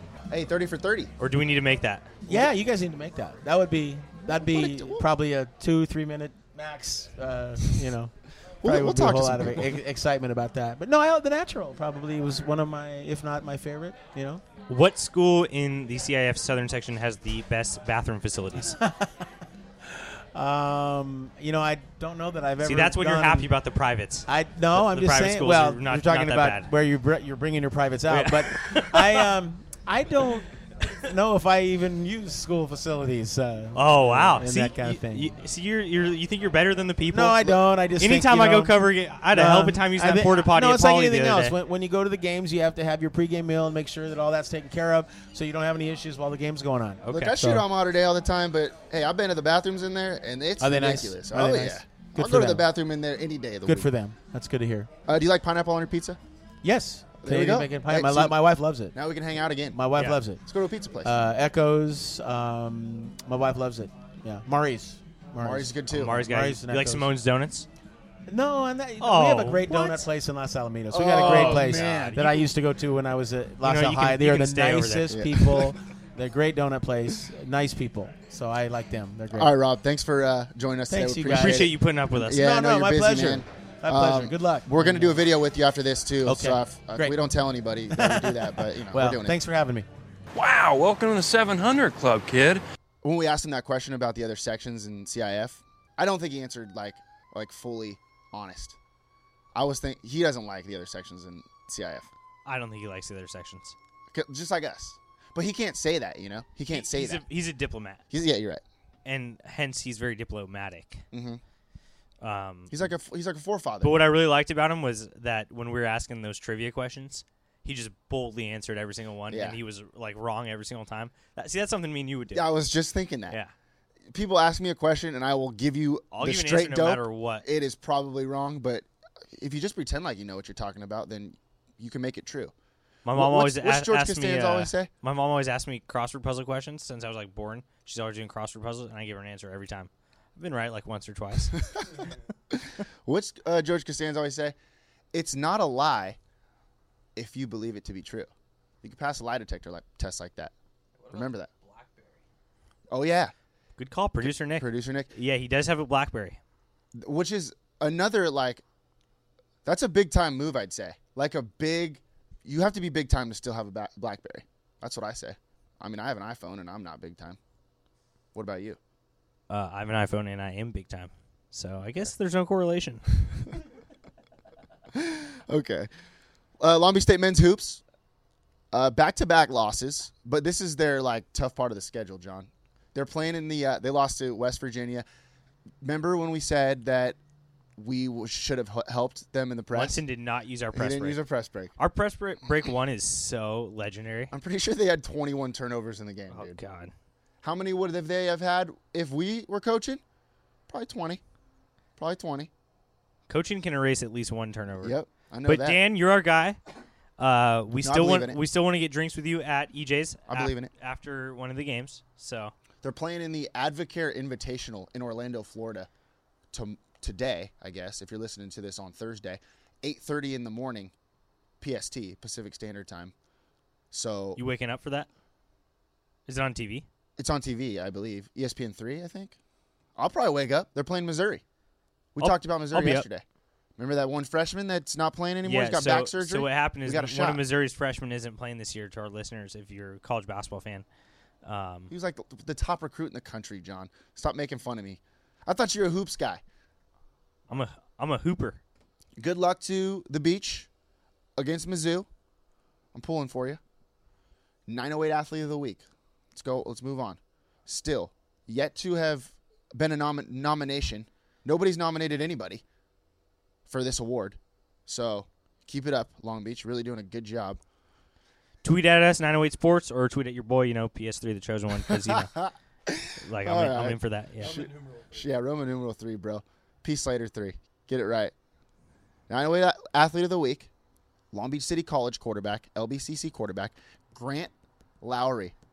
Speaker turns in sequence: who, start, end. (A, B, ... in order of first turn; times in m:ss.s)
0:00.3-0:01.1 A
0:01.2-0:02.1 B
0:02.3-0:08.1 C
0:04.3-0:05.1 A
0:08.6-0:09.8 A
0:08.6-0:14.4 C
0:14.7-0:18.8 B
0:18.8-0:19.3 C
0:20.0-0:23.5 C
0:22.6-0:26.7 B
0:24.3-0:35.3 C
0:28.1-0:29.3 B
0:33.8-0:41.6 B
0:37.1-0:38.8 C
0:39.3-0:47.6 C
0:47.1-0:47.4 B
0:47.1-0:53.9 A
0:50.6-0:52.6 C
0:53.7-0:54.9 C
0:55.1-0:56.2 A
0:56.6-0:58.9 C
0:57.2-0:58.4 A
0:58.9-0:59.8 A
0:59.7-1:00.4 C
1:00.4-1:01.1 A
1:01.0-1:07.1 C
1:05.4-1:06.2 A
1:05.9-1:07.7 B
1:08.3-1:19.5 C
1:09.0-1:10.1 B
1:10.9-1:12.2 A
1:11.2-1:12.5 B
1:13.6-1:15.2 B
1:15.1-1:15.7 A
1:19.3-1:29.4 A
1:20.9-1:21.7 C
1:21.3-1:22.4 B
1:22.3-1:25.2 C
1:26.2-1:27.2 C
1:27.9-1:29.9 C
1:30.3-1:32.6 D
1:33.0-1:38.8 A
1:39.6-1:42.1 A
1:42.5-1:43.8 B
1:44.1-1:47.2 A
1:46.7-1:48.0 B
1:48.1-1:48.6 A
1:49.1-1:51.0 B
1:51.1-1:51.4 A
1:52.2-1:52.8 B
1:52.7-1:54.0 A
1:53.8-2:02.5 B
1:59.3-1:59.6 A
2:02.3-2:03.4 A
2:04.1-2:12.5 A
2:06.1-2:07.4 B
2:13.0-2:22.1 B
2:13.2-2:14.9 A
2:22.5-2:24.6 A
2:25.1-2:26.2 A
2:27.2-2:28.3 A
2:28.8-2:30.5 A
2:31.1-2:31.5 A
2:32.9-2:33.3 A
2:33.8-2:36.4 B
2:34.2-2:35.1 A
2:37.0-2:38.6 A
2:39.6-2:47.4 A
2:48.3-2:48.8 A
2:49.5-2:53.1 B
2:54.9-2:55.9 A
2:56.6-2:57.8 A
2:58.7-3:05.1 A
3:05.8-3:07.2 A
3:07.8-3:10.0 A
3:09.7-3:11.2 B
3:10.7-3:11.7 A
3:11.8-3:14.3 B
3:14.3-3:16.6 A
3:16.3-3:16.9 B
3:17.4-3:20.0 A
3:20.7-3:21.2 A
3:22.0-3:22.5 A
3:23.3-3:26.6 B
3:24.8-3:25.8 A
3:27.2-3:32.5 B
3:27.8-3:28.4 A
3:30.3-3:30.7 A
3:32.8-3:35.9 A
3:36.5-3:40.9 A
3:41.6-3:43.1 A
3:43.9-3:44.4 A
3:44.4-3:45.1 B
3:46.3-3:46.9 B
3:47.2-3:49.4 A
3:50.0-3:51.4 A
3:52.2-3:53.2 A
3:52.2-3:53.1 B
3:53.8-3:57.4 A
3:55.4-4:00.8 B
4:01.4-4:01.9 B
4:01.9-4:06.4 A
4:07.5-4:08.6 B
4:09.2-4:10.7 A
4:11.4-4:12.1 A
4:12.9-4:13.6 A
4:14.7-4:22.6 A
4:23.7-4:27.6 A
4:28.6-4:32.4 B
4:31.9-4:38.3 A
4:33.2-4:34.6 B
4:39.3-4:40.7 A
4:41.3-4:45.5 A